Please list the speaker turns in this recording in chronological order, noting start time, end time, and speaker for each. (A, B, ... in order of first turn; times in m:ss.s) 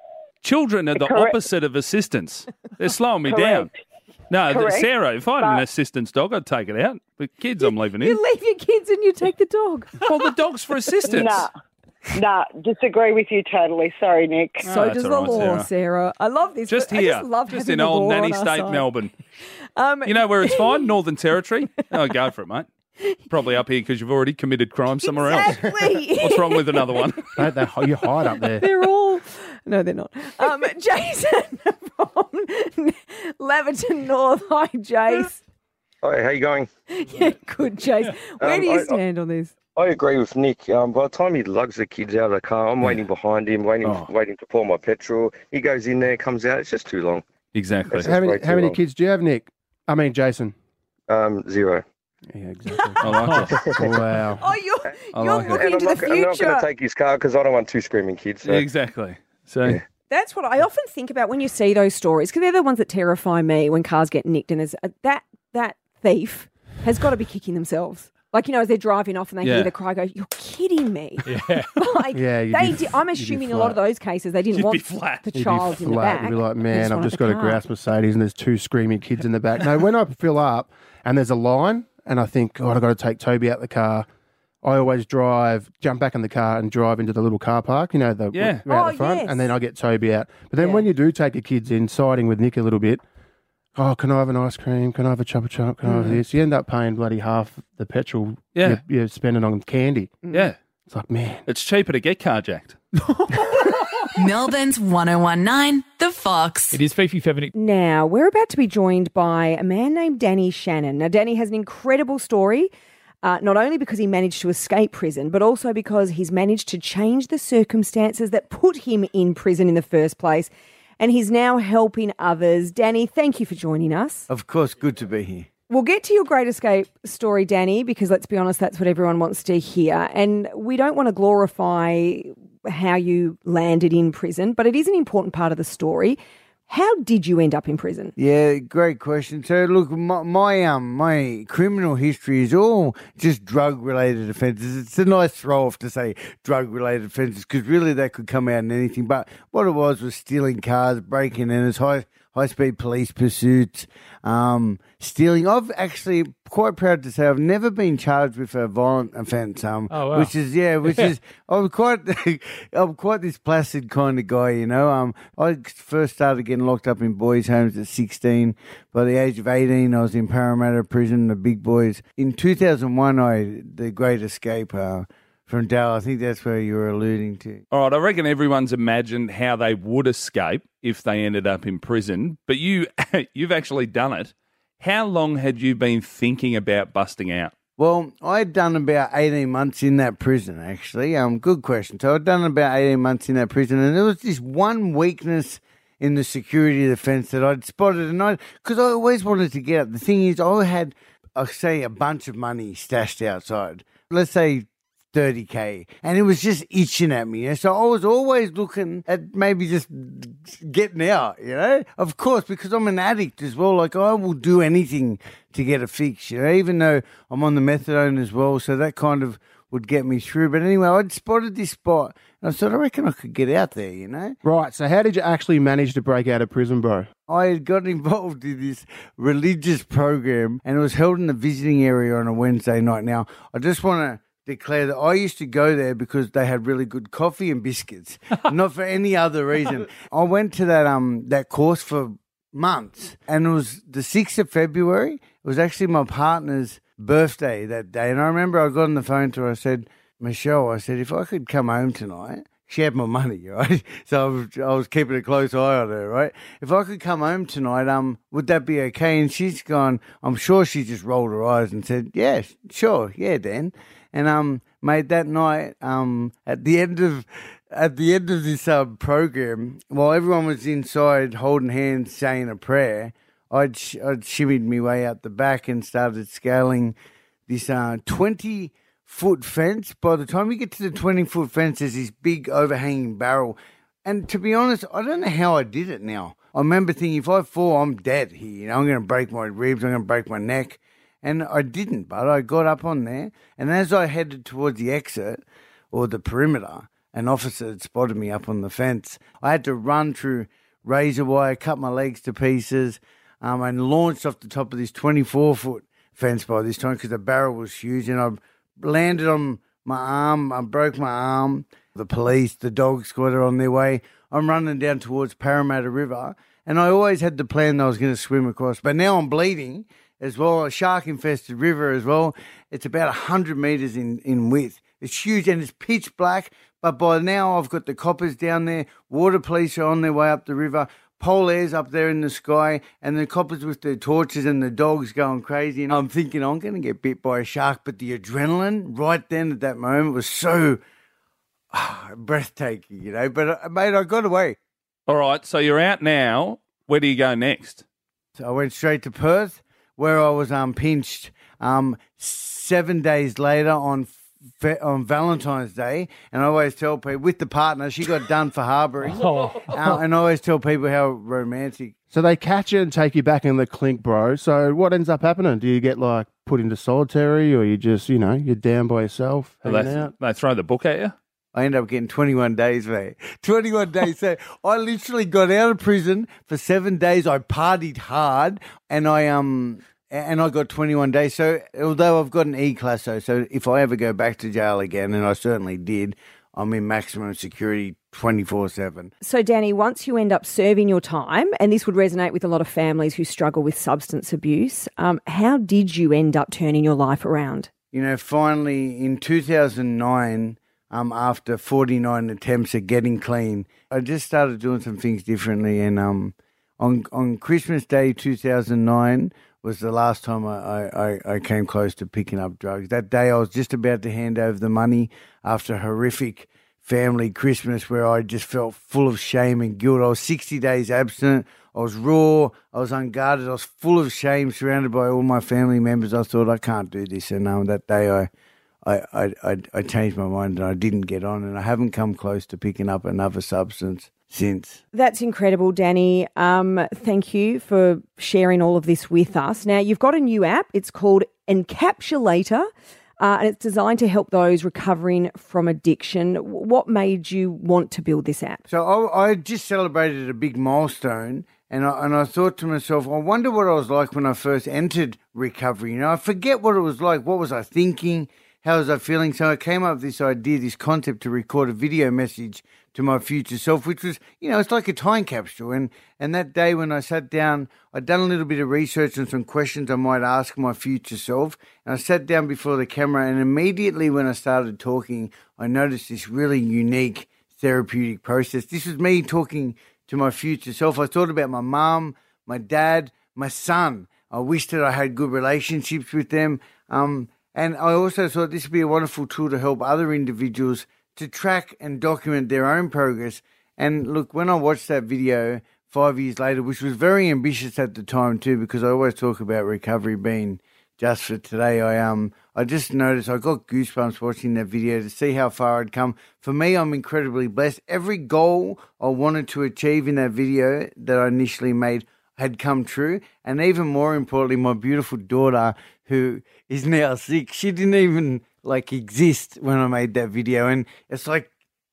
0:00.4-0:03.7 A
0:00.9-0:01.4 B
0:03.2-0:03.7 B
0:04.3-0:08.2 A
0:04.5-0:05.6 B
0:07.6-0:10.0 C
0:10.0-0:11.5 A
0:11.1-0:11.5 B
0:12.1-0:14.6 B
0:14.6-0:15.7 A
0:14.6-0:18.9 C
0:16.7-0:19.1 A
0:19.8-0:20.9 C
0:20.0-0:22.7 A
0:23.3-0:27.4 A
0:25.0-0:27.0 C
0:27.4-0:28.7 D
0:28.4-0:35.4 C
0:36.0-0:36.7 E
0:36.9-0:39.5 C
0:38.4-0:39.0 E
0:39.8-0:47.2 E
0:43.8-0:44.1 A
0:47.5-0:48.1 A
0:47.9-0:48.8 E
0:48.0-0:50.5 D
0:51.1-0:51.8 E
0:52.3-0:54.4 D
0:53.0-0:53.7 A
0:53.2-0:53.5 F
0:54.4-0:56.7 C
0:55.1-0:55.6 A
0:55.4-0:58.6 E
0:58.4-0:59.8 A
1:00.1-1:17.6 C
1:09.4-1:09.7 A
1:11.2-1:11.8 F
1:12.1-1:13.8 D
1:14.5-1:15.5 A
1:15.3-1:24.0 D
1:24.6-1:33.0 D
1:28.3-1:28.6 A
1:28.7-1:29.5 C
1:30.6-1:30.8 C
1:33.7-1:40.2 D
1:38.5-1:38.8 A
1:40.2-1:40.5 C
1:40.9-1:41.4 D
1:41.5-1:42.8 A
1:44.2-1:46.8 G
1:46.7-1:47.5 F
1:47.5-1:52.7 C
1:53.2-2:04.3 C
2:04.3-2:05.5 H
2:05.7-2:18.1 C
2:18.2-2:57.6 H
2:39.9-2:40.3 F
2:40.8-2:41.1 F
2:57.7-3:07.5 A
3:07.8-3:44.4 H
3:44.4-3:47.1 D
3:47.3-4:36.9 H
4:37.5-5:40.8 H
5:41.7-5:44.6 H
5:45.1-5:47.8 A
5:48.4-6:01.9 H
5:59.1-6:00.0 F
6:02.1-6:10.1 D
6:09.6-6:11.1 A
6:11.5-6:29.1 H
6:29.2-6:37.7 C
6:37.9-7:08.3 H
7:08.8-7:14.8 H
7:14.9-7:22.7 C
7:23.2-7:28.6 C
7:28.7-8:41.5 H